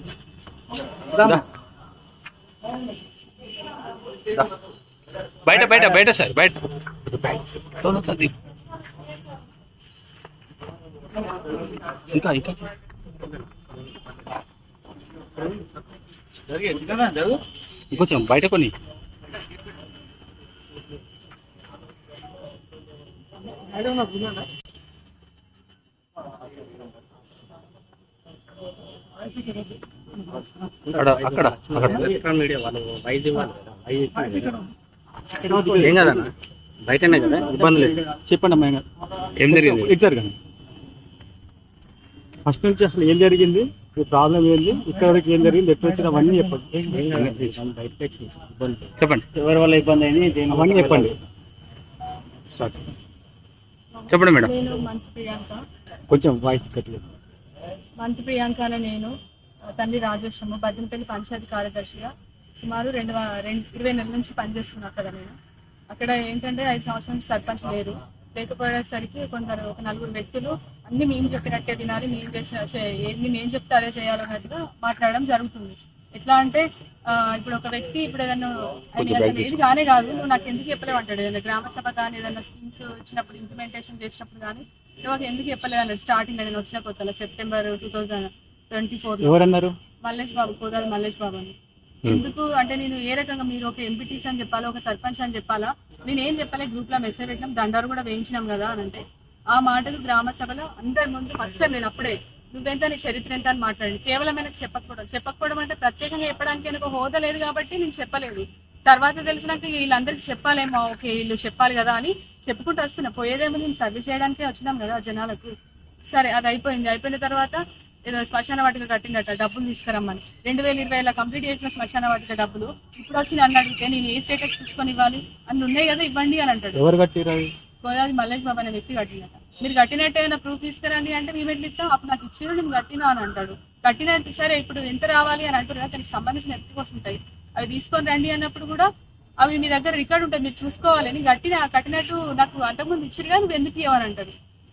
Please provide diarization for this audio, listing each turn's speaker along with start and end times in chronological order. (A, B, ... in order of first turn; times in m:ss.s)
0:01.2-0:01.4 A
0:05.4-0:08.3 A
0:12.1-0:12.6 A
0:16.5-0:17.3 A
0:17.9-0:18.7 A
0:30.9-0:34.6 B
0:30.9-0:32.0 A
0:35.4-0:36.3 C
0:35.4-0:36.3 B
0:36.8-0:38.0 B
0:37.4-0:38.8 C
0:39.4-0:39.9 A
0:39.4-0:40.3 C
0:42.5-0:47.6 C
0:44.1-0:45.1 B
0:45.8-0:51.2 B
0:49.0-0:49.2 A
0:50.5-0:51.1 C
0:52.5-0:52.8 C
0:54.1-0:54.5 A
0:54.1-0:55.6 D
0:56.1-0:57.0 C
0:58.0-0:59.2 D
0:59.7-1:05.4 D
1:05.9-1:29.4 D
1:19.0-1:19.6 A
1:29.3-1:29.7 C
1:30.0-1:55.5 D
1:56.1-2:06.9 D
2:06.7-2:07.5 C
2:07.8-2:18.9 D
2:19.4-2:24.4 D